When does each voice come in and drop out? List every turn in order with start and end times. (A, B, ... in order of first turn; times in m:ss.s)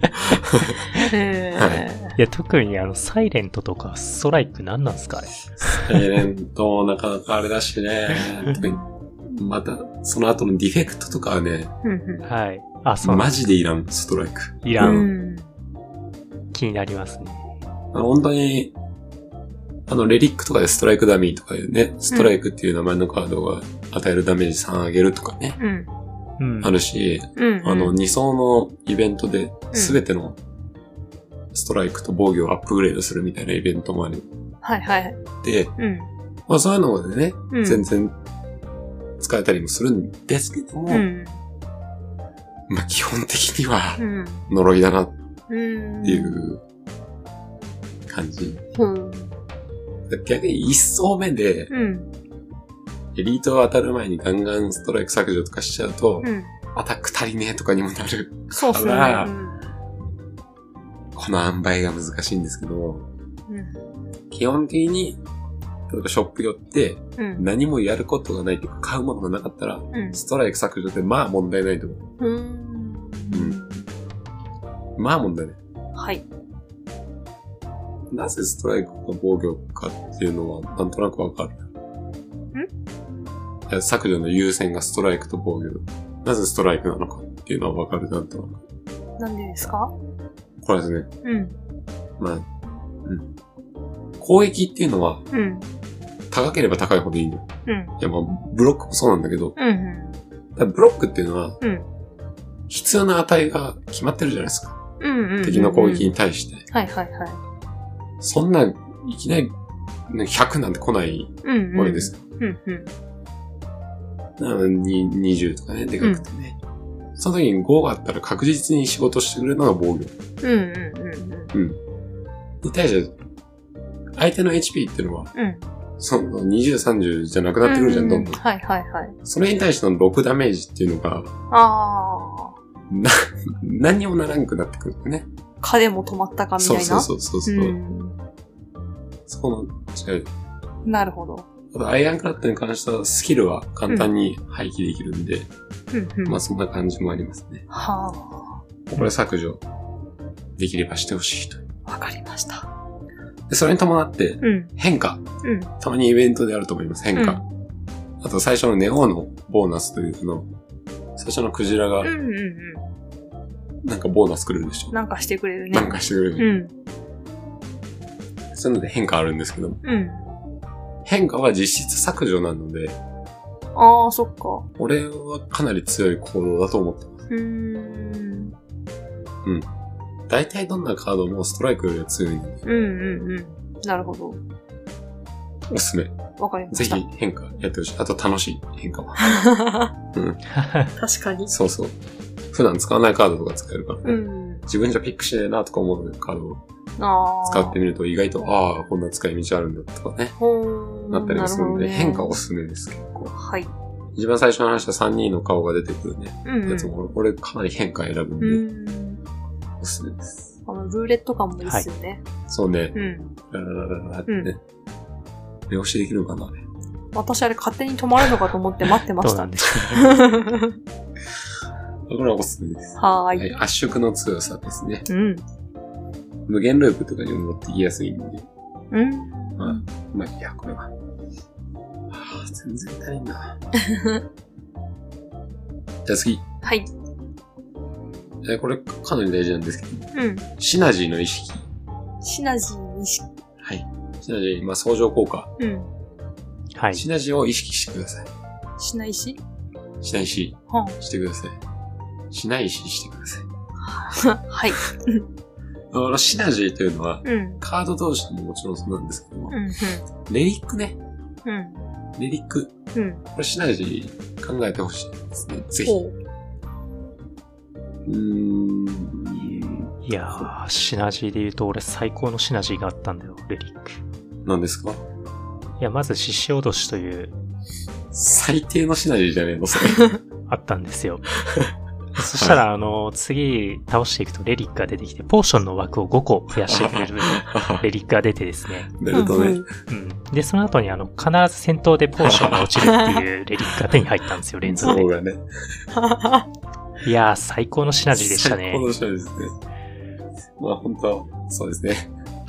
0:00.2-0:00.8 A
0:01.0-0:02.2 B
0:01.6-0:01.9 A
0:02.2-0:06.0 C
0:05.8-0:11.7 A
0:08.6-0:08.9 B
0:11.8-0:12.3 B
0:12.2-0:13.3 C
0:13.0-0:15.1 A
0:14.6-0:15.1 C
0:14.8-0:15.5 B
0:16.5-0:17.5 C
0:17.9-0:18.7 A
0:19.9-0:25.6 A
0:25.6-0:25.9 B
0:26.4-0:26.7 C
0:26.6-0:30.4 A
0:27.4-0:28.0 B
0:29.7-0:30.0 B
0:31.5-0:34.3 A
0:34.6-0:35.2 B
0:35.4-0:35.7 A
0:35.8-0:36.1 B
0:36.5-0:38.1 A
0:37.5-0:37.8 B
0:39.2-0:41.0 A
0:40.9-0:41.4 B
0:42.7-0:45.1 A
0:44.0-0:44.5 B
0:45.5-0:46.4 B
0:46.0-0:46.6 A
0:48.1-0:48.6 A
0:48.7-0:49.4 B
0:50.1-0:51.7 A
0:51.7-0:52.1 B
0:53.1-0:59.3 A
0:56.2-0:56.5 B
0:58.5-0:59.6 B
1:01.1-1:03.1 A
1:03.5-1:03.8 B
1:04.3-1:05.2 A
1:05.9-1:12.0 A
1:07.2-1:07.5 B
1:09.9-1:10.2 B
1:12.2-1:13.9 B
1:13.3-1:13.6 A
1:15.0-1:15.6 A
1:15.9-1:16.2 B
1:18.1-1:21.6 A
1:23.7-1:28.6 A
1:29.2-1:29.9 B
1:30.6-1:31.1 A
1:31.2-1:31.6 B
1:32.2-1:32.4 A
1:34.2-1:35.2 A
1:35.3-1:35.7 B
1:36.3-1:37.4 A
1:37.7-1:37.9 B
1:38.0-1:39.6 A
1:39.6-1:40.2 B
1:40.6-1:41.6 A
1:41.6-1:41.9 B
1:42.7-1:44.8 A
1:45.0-1:46.1 B
1:45.4-1:46.7 A
1:46.7-1:47.4 B
1:48.2-1:49.5 A
1:50.1-1:52.2 A
1:51.4-1:52.9 B
1:54.4-1:56.6 A
1:57.2-2:00.1 A
2:00.4-2:01.5 B
2:01.5-2:01.8 A
2:02.6-2:03.1 A
2:04.2-2:05.3 A
2:05.3-2:05.6 B
2:06.0-2:08.4 A
2:07.6-2:09.2 B
2:09.2-2:11.3 A
2:11.5-2:12.6 B
2:12.9-2:15.3 A
2:15.6-2:18.2 B
2:16.6-2:17.8 A
2:19.3-2:20.3 A
2:20.8-2:21.5 B
2:21.7-2:25.5 A
2:25.9-2:26.4 B
2:26.2-2:27.6 A
2:27.7-2:28.6 B
2:28.9-2:29.6 A
2:30.6-2:31.6 A
2:31.9-2:32.7 B
2:33.5-2:35.2 A
2:34.4-2:34.7 B
2:35.4-2:35.7 B
2:35.8-2:37.4 A
2:37.1-2:37.4 B
2:38.2-2:40.5 A
2:41.2-2:42.1 A
2:42.0-2:42.8 B
2:43.8-2:45.0 A
2:44.9-2:46.7 B
2:45.7-2:46.5 A
2:48.5-2:49.8 A
2:49.8-2:50.4 B
2:51.0-2:53.0 A
2:53.8-2:54.7 B
2:54.8-2:57.2 A
2:57.3-2:58.5 B
3:00.3-3:02.6 A
3:02.6-3:04.4 B
3:05.7-3:06.2 A
3:06.4-3:07.0 B
3:06.7-3:09.2 A
3:09.2-3:09.9 B
3:10.1-3:10.4 A
3:10.5-3:10.9 C
3:11.0-3:11.5 B
3:11.5-3:12.0 A
3:12.5-3:16.6 A
3:14.0-3:14.7 B
3:17.0-3:17.8 B
3:17.4-3:20.4 A
3:20.4-3:22.4 B
3:21.1-3:23.3 A
3:23.3-3:23.7 B
3:24.1-3:28.6 A
3:26.4-3:26.9 B
3:28.4-3:29.2 B
3:29.8-3:30.5 A
3:30.7-3:32.2 B
3:32.5-3:33.0 A
3:32.9-3:33.3 B
3:33.5-3:34.6 A
3:35.7-3:36.6 A
3:37.1-3:40.8 B
3:39.2-3:40.0 C
3:42.1-3:45.1 A
3:43.0-3:43.5 B
3:45.1-3:45.4 B
3:46.5-3:48.5 A
3:48.9-3:49.8 B
3:49.6-3:50.9 A
3:52.1-3:53.6 A
3:53.8-3:54.2 B
3:56.0-3:56.4 A
3:56.6-3:56.9 B
3:58.4-4:01.7 A
4:00.1-4:00.5 B
4:02.2-4:03.2 B
4:03.6-4:05.5 A
4:05.6-4:05.9 B
4:06.8-4:07.0 C
4:06.9-4:08.3 A
4:08.8-4:09.4 B
4:10.0-4:11.6 A
4:10.7-4:11.0 B
4:12.3-4:13.5 A
4:13.8-4:15.2 B
4:15.9-4:19.6 A
4:17.2-4:17.6 B
4:19.5-4:20.0 B
4:20.2-4:21.0 A
4:21.4-4:21.9 B
4:22.2-4:22.7 A
4:22.9-4:23.2 B
4:23.3-4:26.0 A
4:25.8-4:26.2 B
4:28.0-4:30.5 A
4:30.0-4:34.0 C
4:34.4-4:35.0 A
4:35.8-4:37.3 C
4:38.1-4:40.1 A
4:40.5-4:41.2 C
4:41.5-4:41.7 A
4:42.2-4:49.0 C
4:42.3-4:42.6 A
4:46.7-4:47.8 A
4:49.0-4:49.7 A
4:49.1-4:49.7 B
4:49.9-4:55.1 C
4:52.2-4:52.7 A
4:52.8-4:53.2 B
4:54.6-4:55.4 A
4:56.0-4:56.5 B
4:57.0-4:58.9 C
4:58.1-4:59.5 A
5:00.6-5:02.1 A